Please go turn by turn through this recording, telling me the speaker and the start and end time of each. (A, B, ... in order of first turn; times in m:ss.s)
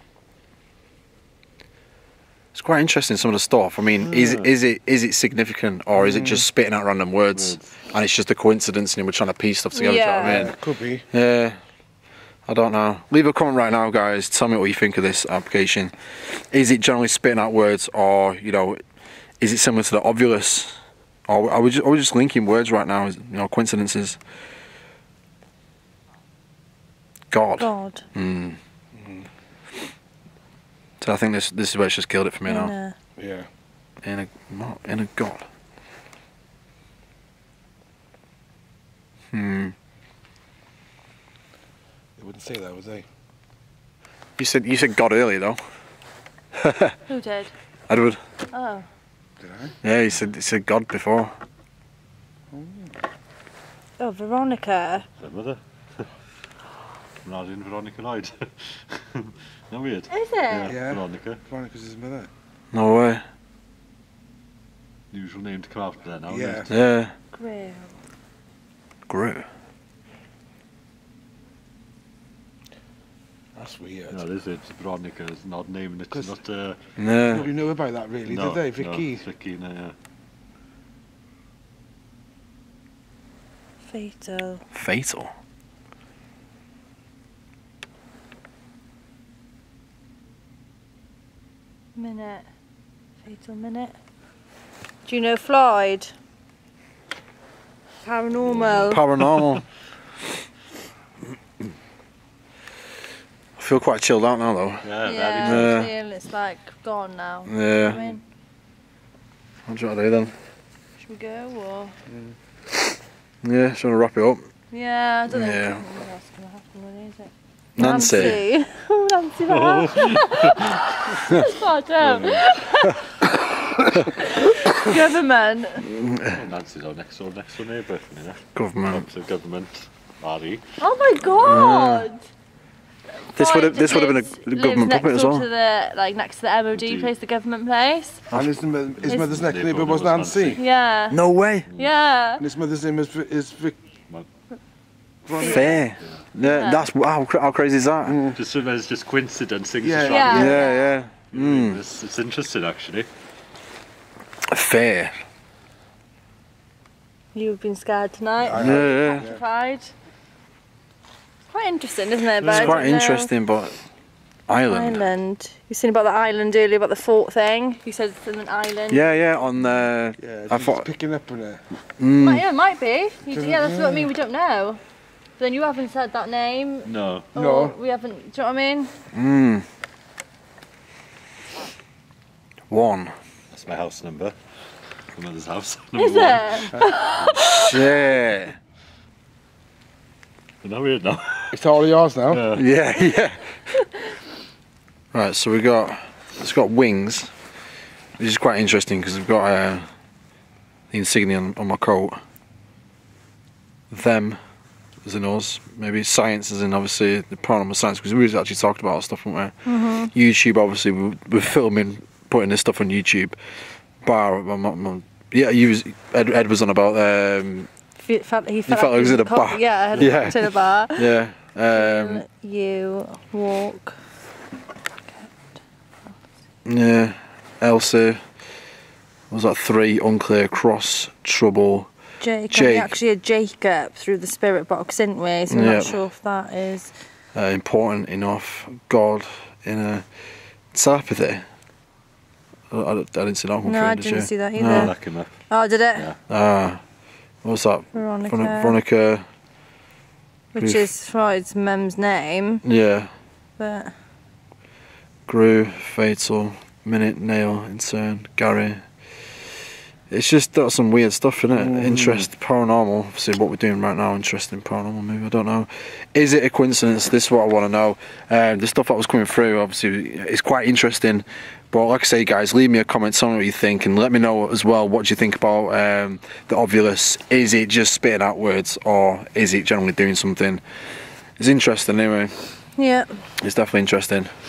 0:02.5-0:10.5 A
0:04.0-0:04.5 B
0:05.9-0:06.4 C
0:07.3-0:07.7 B
0:09.7-0:10.4 D
0:10.2-0:11.0 C
0:11.1-0:11.6 A
0:12.4-0:18.8 A
0:19.4-0:24.2 A
0:27.3-0:28.6 A
0:27.6-0:28.0 D
0:28.9-0:29.3 C
0:31.0-0:32.7 A
0:32.4-0:33.0 D
0:33.2-0:33.5 C
0:34.0-0:35.4 A
0:39.3-0:39.7 A
0:42.2-0:43.0 C
0:44.4-0:45.6 A
0:46.6-0:47.0 A
0:47.1-0:47.5 D
0:47.9-0:48.2 A
0:48.5-0:48.8 D
0:49.4-0:49.8 C
0:49.8-0:51.3 A
0:52.5-0:53.0 C
0:54.0-0:55.0 D
0:55.2-0:56.1 B
0:57.2-1:01.4 B
1:00.1-1:00.7 D
1:00.7-1:02.3 C
1:02.7-1:03.2 A
1:05.1-1:06.6 B
1:06.3-1:06.7 C
1:06.7-1:07.1 A
1:07.3-1:07.9 D
1:09.1-1:09.4 A
1:13.6-1:14.2 C
1:14.1-1:16.8 B
1:17.0-1:17.5 A
1:17.2-1:19.2 C
1:18.2-1:20.0 B
1:23.8-1:24.6 D
1:24.7-1:25.3 A
1:31.9-1:32.5 D
1:33.2-1:34.0 D
1:35.0-1:36.1 D
1:38.0-1:39.0 D
1:38.7-1:39.7 A
1:43.6-1:45.9 A
1:44.8-1:45.8 B
1:45.0-1:48.2 D
1:47.5-1:48.1 A
1:49.6-1:50.4 A
1:51.0-1:51.9 D
1:52.1-1:52.4 C
1:53.4-1:54.5 A
1:54.7-2:03.2 D
1:55.3-1:55.8 A
1:57.8-1:58.4 A
1:59.5-2:00.6 B
2:02.0-2:02.4 B
2:04.2-2:05.9 D
2:05.8-2:06.4 A
2:06.3-2:10.8 B
2:08.5-2:09.1 A
2:10.8-2:12.2 D
2:11.4-2:12.1 A
2:13.2-2:18.2 D
2:13.3-2:15.4 A
2:16.7-2:17.1 B
2:18.3-2:18.6 A
2:18.3-2:20.6 C
2:18.9-2:20.6 B
2:20.6-2:21.2 D
2:21.1-2:21.7 A
2:21.7-2:22.4 D
2:22.4-2:23.8 C
2:25.2-2:25.9 C
2:25.3-2:25.8 D
2:25.4-2:28.2 A
2:26.0-2:26.2 B
2:26.4-2:26.8 D
2:28.0-2:28.4 C
2:28.3-2:30.6 B
2:29.8-2:30.6 C
2:30.1-2:30.9 D
2:30.3-2:31.8 A
2:31.3-2:33.1 B
2:34.5-2:35.1 A
2:37.3-2:39.9 D
2:38.4-2:39.4 C
2:38.5-2:39.3 A
2:41.5-2:43.3 D
2:42.4-2:42.9 B
2:42.4-2:43.8 A
2:44.5-2:45.0 A
2:44.7-2:49.4 D
2:48.9-2:50.9 A
2:50.2-2:51.6 C
2:52.0-2:52.4 A
2:52.2-2:54.8 D
2:53.3-2:54.1 C
2:55.4-2:58.9 D
2:56.8-2:57.3 B
2:57.3-2:57.8 C
2:59.1-2:59.6 A
3:02.7-3:03.1 A
3:03.5-3:04.4 B
3:05.1-3:07.4 B
3:06.0-3:07.8 D
3:07.5-3:08.6 A
3:10.6-3:11.6 B
3:11.5-3:12.4 C
3:12.3-3:12.6 B
3:12.5-3:13.5 A
3:13.7-3:14.1 D
3:15.1-3:17.3 A
3:18.2-3:19.9 A
3:20.9-3:22.2 A
3:23.9-3:24.4 A
3:25.0-3:29.6 A
3:29.6-3:30.1 D
3:30.1-3:33.4 A
3:34.0-3:37.7 A
3:38.0-3:41.2 D
3:38.7-3:42.2 A
3:41.7-3:44.0 D
3:46.6-3:48.2 A
3:49.3-3:51.9 A
3:52.2-3:57.0 D
3:52.5-3:52.9 A
3:55.5-3:56.0 A
3:57.3-4:01.4 A
4:02.7-4:04.9 A
4:03.6-4:06.0 D
4:04.6-4:05.3 B
4:06.3-4:06.8 A
4:07.4-4:09.2 A
4:07.9-4:08.8 D
4:10.5-4:12.6 D
4:10.6-4:10.9 A
4:12.6-4:13.1 A
4:13.6-4:13.9 D
4:15.3-4:19.5 A
4:20.1-4:40.6 A
4:21.6-4:22.2 C
4:41.4-4:42.3 A
4:42.8-4:43.2 D
4:43.4-4:44.3 A